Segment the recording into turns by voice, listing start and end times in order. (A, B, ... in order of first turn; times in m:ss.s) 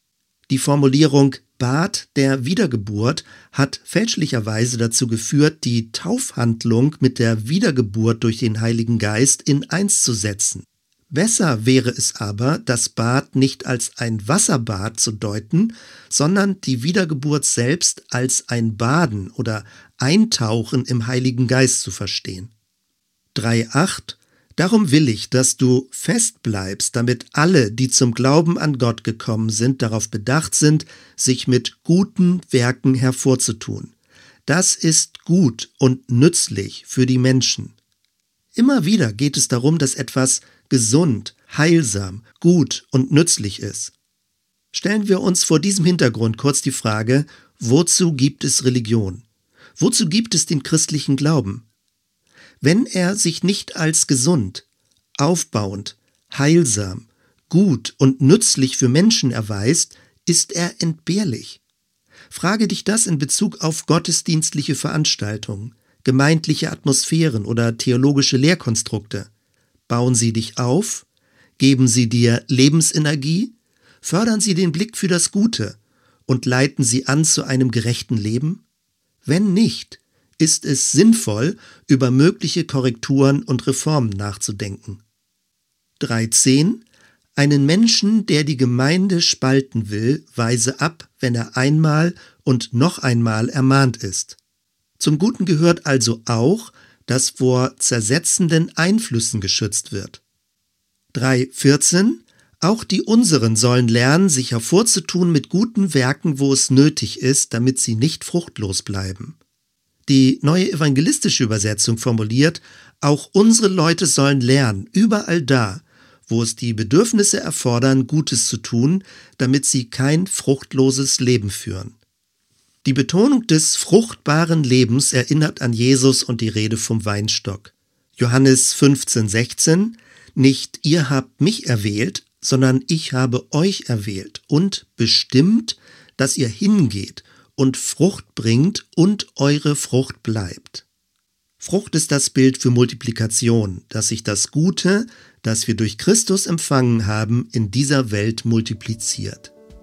0:00.5-0:22.5 A
0:23.3-0:33.9 A
0:34.5-0:37.8 A
0:38.6-0:43.9 A
0:44.7-0:49.2 A
0:49.8-0:51.7 A
0:52.6-0:54.7 A
0:55.2-1:01.6 A
1:02.3-1:09.3 A
1:09.9-1:11.1 A
1:11.6-1:18.6 A
1:19.2-1:25.0 A
1:26.0-1:26.8 A
1:27.4-1:34.4 A
1:35.0-1:40.2 A
1:41.1-1:49.4 A
1:50.1-2:02.0 A
2:02.8-2:20.9 A
2:21.6-2:29.5 A